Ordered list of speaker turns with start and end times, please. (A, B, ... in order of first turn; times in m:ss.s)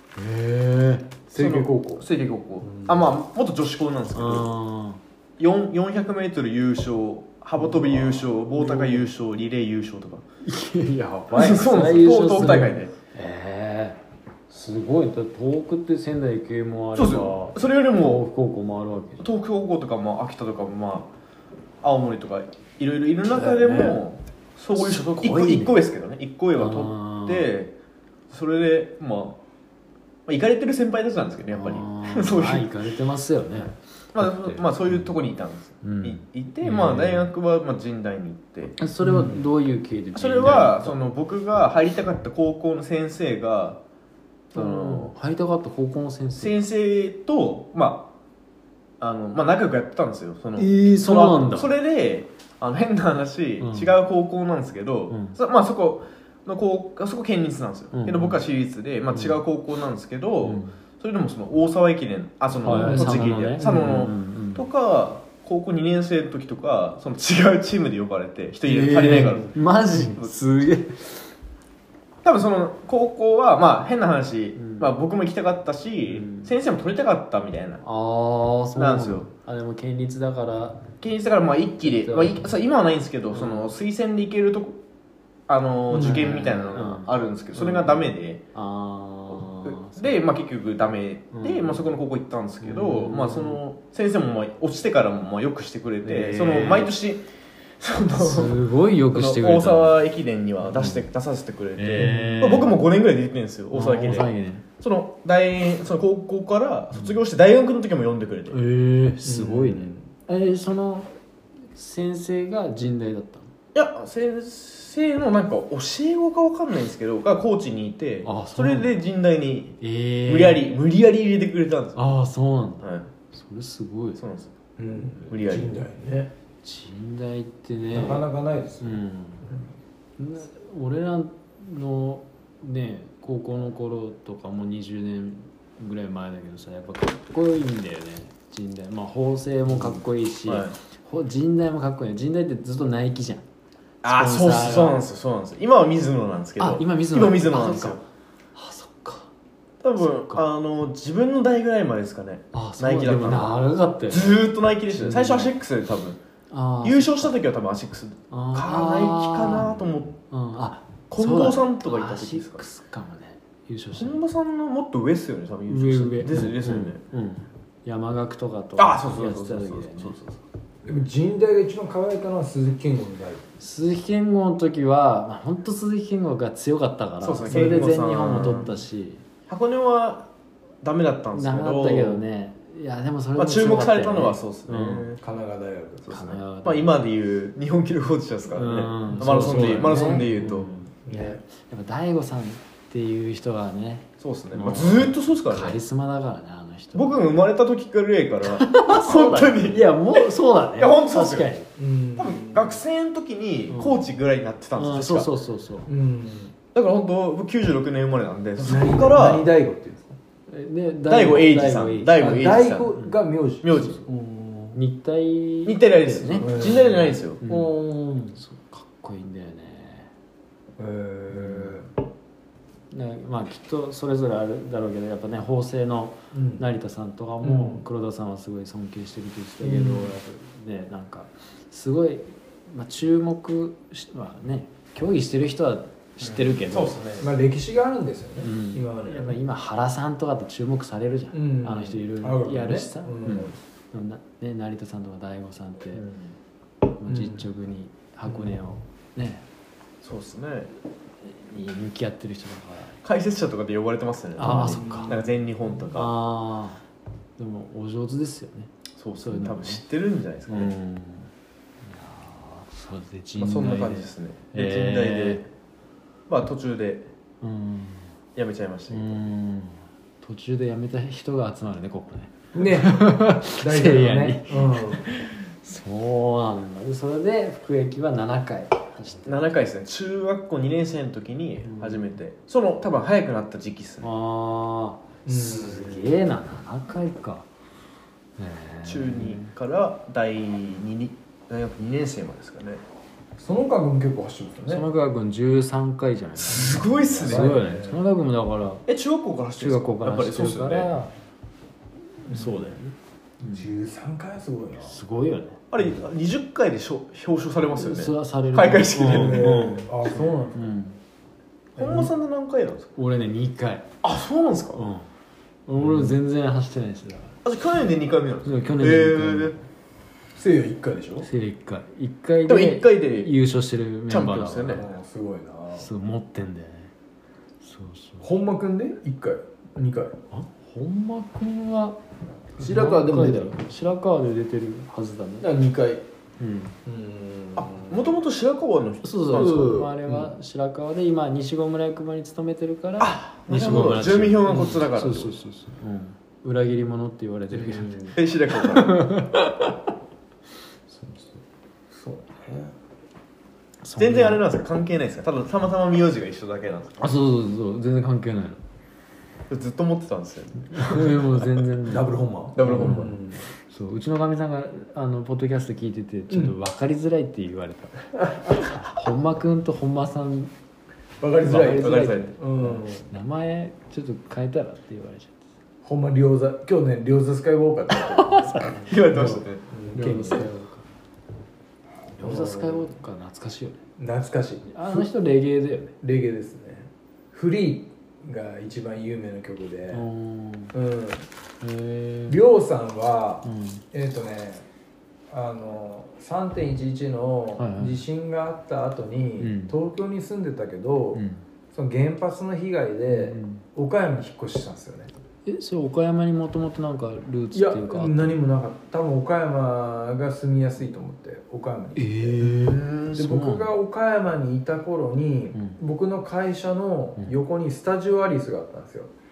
0:00.4-0:01.0 A
0:01.3-0:02.0 B
0:01.4-0:04.5 C
0:02.6-0:03.1 B
0:04.1-0:05.0 A
0:05.4-0:10.2 C
0:08.0-0:09.0 A
0:10.4-0:14.0 A
0:11.3-0:12.9 C
0:14.5-0:19.3 A
0:17.0-0:18.2 C
0:19.2-0:21.1 C
0:21.8-0:27.7 C
0:23.3-0:24.0 A
0:24.7-0:25.8 A
0:26.6-0:27.5 A
0:28.3-0:29.4 C
0:30.2-0:32.7 C
0:31.5-0:35.1 A
0:34.1-0:38.8 C
0:35.8-0:37.3 A
0:38.8-0:41.0 A
0:39.0-0:39.4 B
0:40.1-0:43.8 C
0:44.5-0:45.1 C
0:44.5-0:46.5 A
0:46.4-0:48.1 C
0:49.0-1:10.4 C
0:50.6-0:51.7 A
0:53.6-0:53.9 A
0:55.1-0:55.4 A
0:57.9-0:58.4 A
0:59.1-0:59.4 A
1:00.4-1:00.7 A
1:02.6-1:04.6 A
1:02.7-1:03.2 B
1:08.6-1:11.3 A
1:09.2-1:09.5 B
1:12.2-1:17.8 C
1:14.6-1:14.9 A
1:16.1-1:16.5 A
1:17.8-1:20.9 A
1:18.8-1:19.3 C
1:21.0-1:24.8 C
1:21.8-1:22.5 A
1:23.3-1:23.7 A
1:25.5-1:28.4 C
1:25.9-1:26.3 B
1:25.9-1:30.2 A
1:29.3-1:37.3 C
1:31.3-1:31.9 A
1:32.6-1:33.6 A
1:36.0-1:36.9 A
1:37.8-1:48.6 C
1:38.1-1:40.0 A
1:40.7-1:41.1 A
1:41.8-1:42.8 A
1:42.0-1:42.3 B
1:43.7-1:44.6 A
1:48.5-1:51.1 A
1:49.2-1:50.0 B
1:51.7-1:53.5 A
1:53.7-2:02.0 C
1:58.2-1:58.9 A
1:59.8-2:00.6 A
2:02.0-2:04.2 A
2:02.8-2:03.1 C
2:04.2-2:04.5 C
2:04.8-2:06.3 B
2:05.2-2:05.8 C
2:06.6-2:08.2 A
2:07.9-2:09.6 B
2:08.8-2:09.5 A
2:10.2-2:23.4 A
2:19.7-2:20.8 C
2:24.0-2:28.0 C
2:24.0-2:25.0 A
2:26.6-2:28.0 A
2:28.5-2:29.3 A
2:29.8-2:36.2 C
2:30.0-2:30.4 A
2:32.5-2:35.5 A
2:36.5-2:37.3 A
2:36.8-2:40.1 C
2:38.3-2:39.7 A
2:40.3-2:44.2 A
2:41.1-2:42.6 C
2:44.0-2:47.0 C
2:45.7-2:50.2 A
2:48.8-2:50.4 C
2:50.8-2:53.4 B
2:53.6-2:59.2 A
2:57.2-2:58.8 C
2:59.5-3:00.3 C
3:00.8-3:02.2 C
3:01.3-3:05.1 A
3:03.4-3:05.2 C
3:05.2-3:06.4 B
3:06.1-3:06.9 A
3:06.1-3:10.7 C
3:08.5-3:17.2 A
3:09.1-3:10.5 B
3:11.0-3:11.4 B
3:14.2-3:15.8 C
3:16.9-3:21.5 C
3:18.4-3:21.7 A
3:21.8-3:22.8 B
3:22.2-3:25.3 C
3:23.7-3:24.0 A
3:24.8-3:25.9 A
3:25.9-3:26.5 B
3:26.7-3:29.5 C
3:28.6-3:30.2 B
3:30.5-3:32.5 A
3:31.1-3:32.9 C
3:32.2-3:34.7 B
3:33.6-3:34.0 C
3:34.7-3:36.9 A
3:35.6-3:37.4 C
3:36.4-3:38.4 B
3:37.4-3:37.8 A
3:38.3-3:40.1 A
3:40.8-3:41.9 B
3:41.3-3:41.8 A
3:42.9-3:57.0 A
3:46.3-3:46.6 B
3:47.4-3:47.8 B
3:49.6-3:50.2 B
3:56.2-3:57.3 C
3:57.2-3:59.4 B
3:58.4-4:06.0 A
4:01.3-4:03.6 B
4:06.0-4:06.3 C
4:07.0-4:09.4 A
4:07.1-4:07.5 B
4:10.0-4:10.7 C
4:11.2-4:13.0 A
4:13.0-4:16.1 C
4:14.4-4:15.2 A
4:14.5-4:15.2 B
4:15.9-4:16.8 A
4:17.4-4:19.8 A
4:19.0-4:20.7 C
4:20.5-4:21.3 A
4:21.8-4:25.4 A
4:23.4-4:25.4 C
4:26.3-4:27.1 C
4:27.4-4:28.1 A
4:28.4-4:29.3 C
4:28.9-4:39.4 A
4:32.5-4:35.0 B
4:39.2-4:44.1 C
4:41.6-4:42.1 A
4:44.0-4:47.5 A
4:45.2-4:46.2 B
4:48.4-4:49.5 A
4:48.8-4:52.8 C
4:53.4-4:54.8 B
4:54.7-4:58.8 A
4:56.4-4:57.6 C
4:56.9-4:58.0 B
4:58.9-5:00.9 C
4:59.6-5:01.1 A
5:02.3-5:02.7 B
5:02.3-5:03.7 A
5:03.5-5:05.0 B
5:04.8-5:05.6 A
5:05.7-5:09.7 C
5:07.8-5:11.0 A
5:09.0-5:10.7 B
5:11.8-5:12.9 C
5:11.8-5:12.1 B
5:13.0-5:13.8 A
5:14.0-5:14.8 C
5:14.7-5:15.1 A
5:15.7-5:17.4 A
5:17.4-5:19.6 C
5:18.4-5:19.5 A
5:20.3-5:21.3 B
5:21.2-5:24.8 A
5:22.5-5:23.3 C
5:24.1-5:24.8 C
5:24.7-5:25.9 B
5:25.7-5:26.9 A
5:27.6-5:28.3 A
5:28.2-5:30.2 B
5:30.3-5:32.0 A
5:32.6-5:35.5 A
5:32.6-5:33.4 C
5:35.4-5:36.0 B
5:36.4-5:36.7 A
5:36.8-5:38.1 B
5:37.6-5:39.9 C
5:39.0-5:49.8 A
5:39.3-5:40.3 B
5:43.0-5:45.4 C
5:47.5-5:48.1 B
5:48.1-5:49.1 C
5:50.9-5:51.4 A
5:51.9-5:52.7 B
5:53.8-5:54.4 A
5:54.0-5:57.0 C
5:57.0-5:58.6 A
5:59.5-6:01.4 C
6:00.7-6:03.1 A
6:01.9-6:03.4 B
6:02.6-6:03.1 C
6:03.7-6:08.0 A
6:06.3-6:06.6 B
6:08.2-6:08.6 B
6:08.5-6:10.5 A
6:11.2-6:13.1 B
6:11.4-6:15.4 A
6:11.5-6:12.3 C
6:15.8-6:18.8 B
6:17.9-6:20.8 A
6:18.7-6:19.7 C
6:19.7-6:20.5 B
6:22.2-6:23.8 A
6:22.2-6:22.9 B
6:24.0-6:25.1 B
6:24.7-6:25.9 A
6:26.0-6:30.0 B
6:29.9-6:30.7 A
6:30.7-6:31.3 B
6:31.6-6:32.4 A
6:32.3-6:34.6 B
6:33.4-6:33.8 A
6:35.3-6:45.1 B
6:37.6-6:38.0 A
6:39.4-6:39.7 A
6:41.1-6:41.4 A
6:43.1-6:43.6 A
6:45.4-6:48.4 A
6:47.5-6:52.5 B
6:52.0-6:53.7 A
6:52.4-6:53.2 C
6:53.1-6:59.1 B